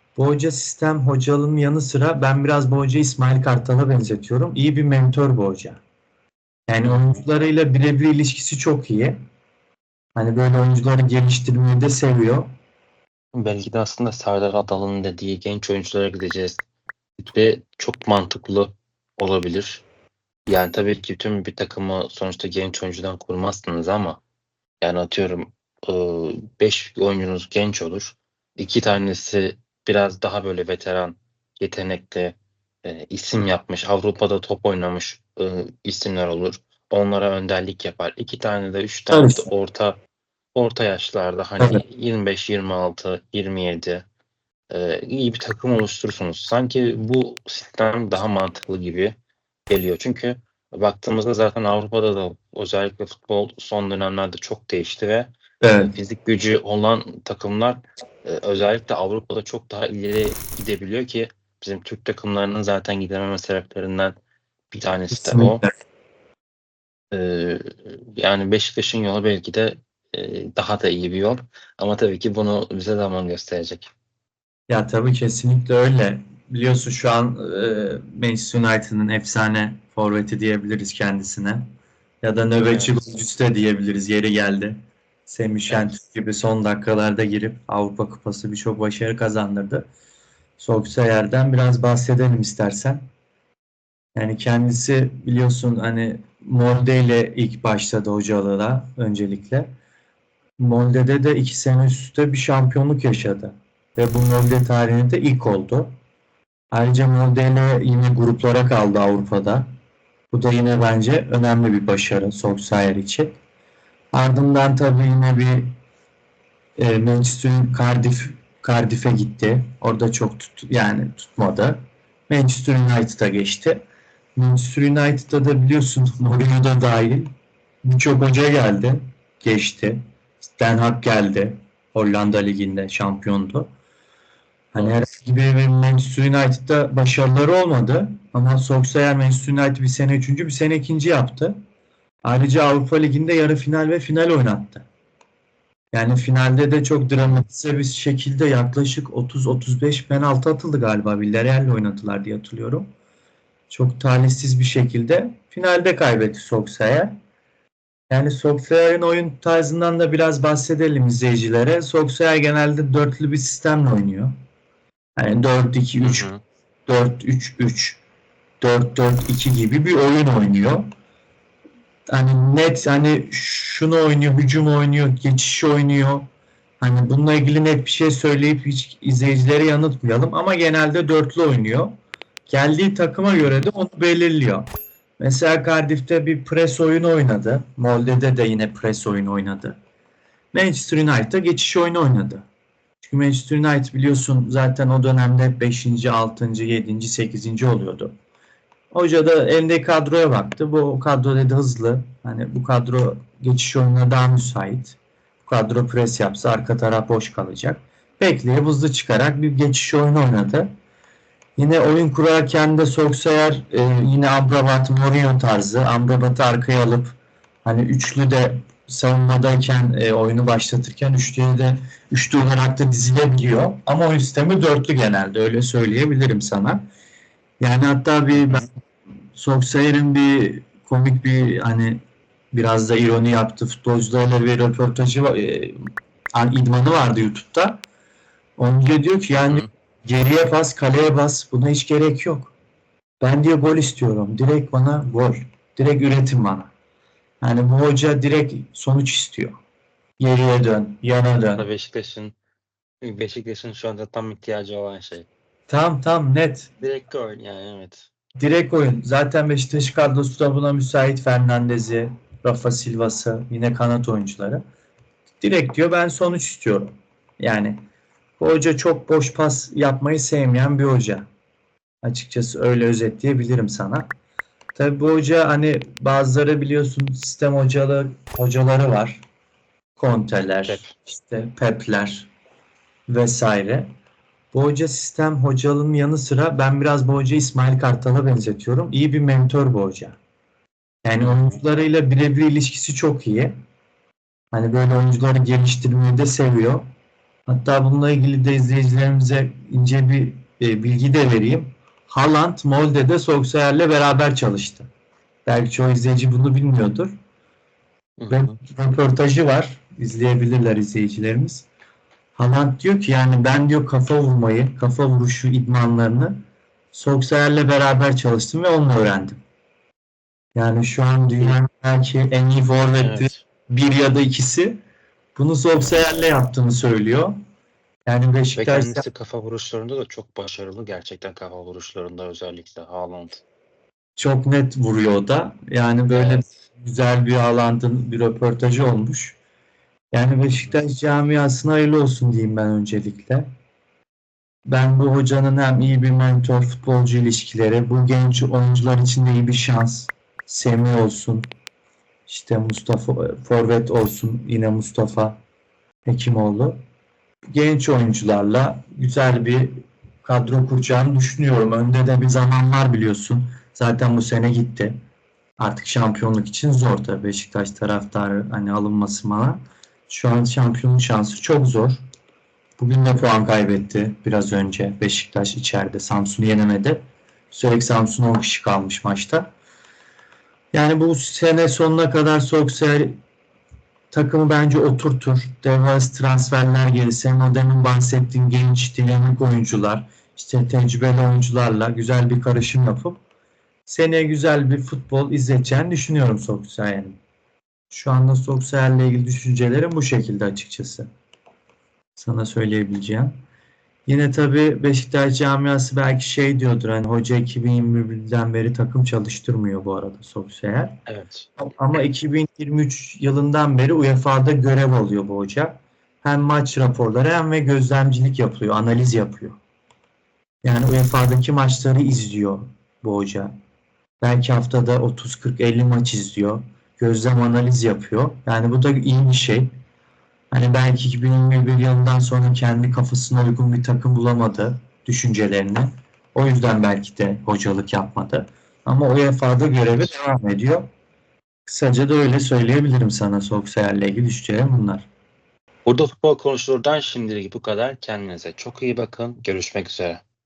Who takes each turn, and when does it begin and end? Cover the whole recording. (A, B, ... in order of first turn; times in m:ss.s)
0:00.2-0:05.8 A
0:06.7-0:09.2 A
0:06.8-0:07.2 B
0:10.2-0:12.5 A
0:13.4-0:16.6 B
0:17.2-0:19.8 B
0:20.5-0:24.2 B
0:24.8-0:40.0 B
0:39.1-0:39.5 A
0:40.6-0:44.0 B
0:44.7-0:49.1 B
0:49.7-0:55.3 B
0:55.6-0:56.0 A
0:55.9-1:04.2 B
1:04.7-1:05.6 B
1:05.1-1:05.7 A
1:07.1-1:13.9 B
1:14.7-1:21.6 A
1:22.2-1:29.9 A
1:22.7-1:23.0 B
1:25.7-1:26.0 B
1:30.6-1:33.0 A
1:34.2-1:39.7 A
1:40.6-1:45.9 A
1:46.7-1:49.7 A
1:50.3-1:53.4 A
1:54.1-1:55.7 A
1:56.8-2:03.8 A
2:04.4-2:07.3 A
2:07.8-2:13.7 A
2:14.7-2:21.6 A
2:22.2-2:24.9 A
2:25.9-2:32.9 A
2:33.7-2:37.2 A
2:38.1-2:44.3 A
2:45.2-2:46.3 A
2:46.0-2:46.4 B
2:46.9-2:48.0 A
2:48.6-2:50.9 A
2:52.1-2:56.3 A
2:56.8-3:01.9 A
3:02.5-3:04.7 A
3:05.2-3:09.8 A
3:10.5-3:12.5 A
3:13.0-3:18.1 A
3:18.9-3:30.7 A
3:31.6-3:46.9 A
3:47.6-3:48.7 A
3:48.4-3:48.7 B
3:49.4-3:57.8 A
3:58.6-4:02.5 A
3:59.4-3:59.7 B
4:03.2-4:06.7 A
4:07.4-4:09.6 A
4:10.2-4:11.7 A
4:11.6-4:12.4 B
4:13.0-4:15.3 B
4:15.7-4:16.7 A
4:16.8-4:18.1 B
4:18.4-4:24.6 A
4:25.4-4:27.8 A
4:28.4-4:31.3 A
4:32.0-4:34.1 A
4:34.8-4:39.2 A
4:40.0-4:42.3 A
4:40.7-4:40.9 B
4:43.1-4:43.9 A
4:44.5-4:50.2 A
4:51.0-4:53.5 A
4:51.2-4:51.6 B
4:54.5-4:56.9 A
4:57.5-5:04.9 A
5:05.5-5:07.1 A
5:08.2-5:08.6 B
5:08.3-5:11.7 A
5:12.4-5:16.4 A
5:16.9-5:19.4 A
5:20.6-5:24.8 A
5:23.0-5:23.4 B
5:25.4-5:27.4 A
5:28.1-5:29.0 A
5:28.6-5:33.4 B
5:34.2-5:39.4 A
5:36.1-5:36.5 B
5:40.1-5:43.5 A
5:44.7-5:51.4 A
5:52.3-5:55.4 A
5:56.1-5:56.8 A
5:57.5-6:05.0 A
6:05.6-6:12.0 A
6:12.8-6:19.5 A
6:20.7-6:23.2 A
6:24.1-6:33.2 A
6:33.9-6:37.2 A
6:37.9-6:41.1 A
6:42.2-6:43.3 A
6:44.1-6:51.0 A
6:51.1-6:51.5 B
6:51.6-6:59.6 A
7:00.6-7:03.5 A
7:04.2-7:09.7 A
7:10.5-7:20.9 A
7:21.7-7:25.1 A
7:25.9-7:30.2 B